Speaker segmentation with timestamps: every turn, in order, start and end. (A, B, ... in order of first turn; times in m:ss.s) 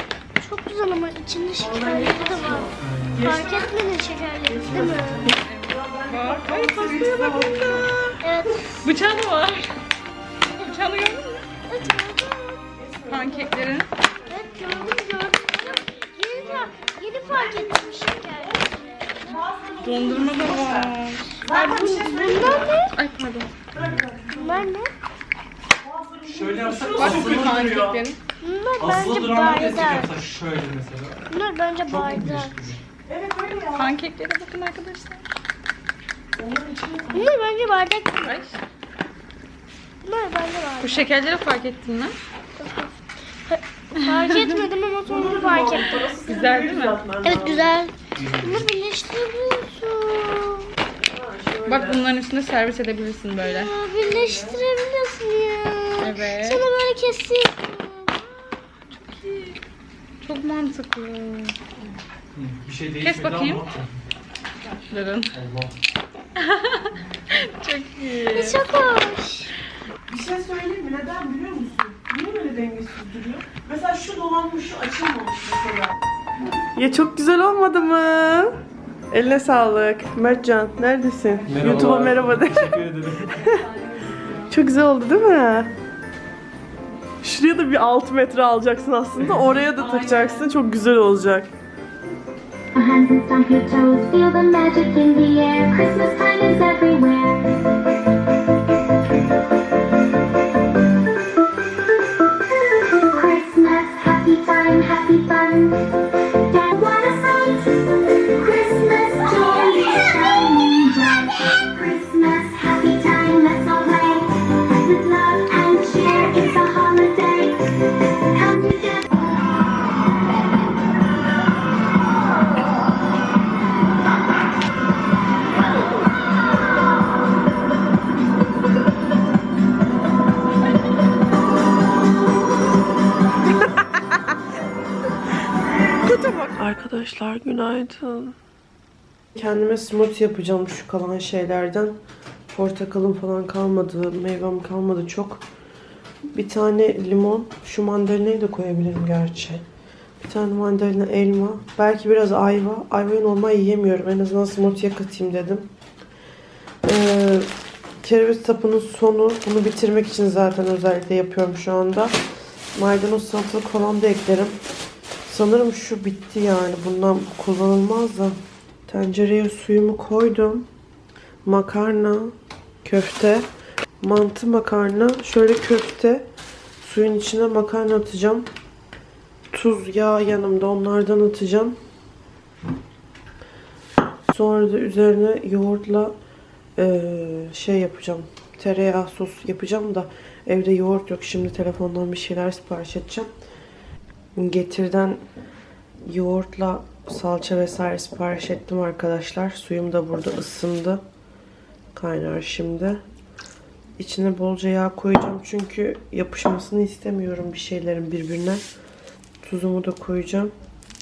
0:00.4-0:05.3 A
0:01.6-0:03.8 B
0:02.8-0:03.3 C
0:04.4-0:08.2 B
0:04.7-0:05.3 C
0:05.2-0:07.9 D
0:07.2-0:08.8 A
0:08.8-0:09.7 D
0:10.6-0:11.0 A
0:10.6-0:11.5 D
0:11.7-0:12.6 A
0:12.7-0:15.1 B
0:13.1-0:13.9 D
0:14.3-0:19.4 A
0:16.3-0:22.9 B
0:19.8-0:21.7 D
0:21.5-0:23.0 A
0:22.2-0:23.5 D
0:23.7-0:24.7 B
0:23.7-0:24.1 C
0:24.3-0:24.9 A
0:25.8-0:27.9 B
0:26.3-0:28.0 C
0:26.9-0:28.2 D
0:28.4-0:30.1 A
0:28.8-0:31.2 C
0:31.3-0:32.5 A
0:31.8-0:32.8 C
0:33.1-0:33.9 B
0:33.7-0:35.2 D
0:36.3-0:37.3 B
0:37.1-0:38.5 A
0:38.2-0:38.6 D
0:40.0-0:41.1 A
0:40.8-0:42.2 D
0:42.6-0:42.9 A
0:43.5-0:46.0 A
0:44.0-0:44.6 D
0:45.0-0:47.7 B
0:46.2-0:47.0 D
0:47.2-0:50.7 A
0:48.2-0:48.7 C
0:51.1-0:52.0 B
0:51.6-0:53.7 D
0:53.4-0:58.5 A
0:54.0-0:54.6 B
0:56.0-0:56.6 D
0:58.9-0:59.6 D
1:00.2-1:01.6 D
1:02.3-1:04.0 C
1:03.0-1:03.6 D
1:04.7-1:05.3 D
1:05.3-1:05.7 C
1:06.4-1:08.6 D
1:08.3-1:09.5 A
1:10.1-1:16.0 B
1:16.7-1:18.6 B
1:19.1-1:23.6 B
1:21.5-1:23.4 C
1:23.2-1:24.6 D
1:24.5-1:25.7 B
1:27.2-1:31.5 B
1:29.7-1:30.5 D
1:32.7-1:37.5 E
1:42.7-1:45.8 E
1:46.4-1:59.2 E
2:16.0-2:18.4 B
2:19.3-2:22.0 B
2:22.5-2:25.4 B
2:26.3-2:29.6 B
2:30.2-2:35.7 B
2:36.8-2:37.5 B
2:38.0-2:42.2 B
2:42.7-2:44.6 B
2:45.2-2:50.7 B
2:51.4-2:53.4 B
2:54.0-2:56.3 B
2:56.8-2:58.5 B
2:59.5-3:01.8 B
3:04.3-3:06.1 B
3:06.8-3:13.3 B
3:14.4-3:15.2 B
3:16.0-3:21.0 B
3:21.9-3:23.0 B
3:24.0-3:28.6 B
3:29.4-3:30.5 B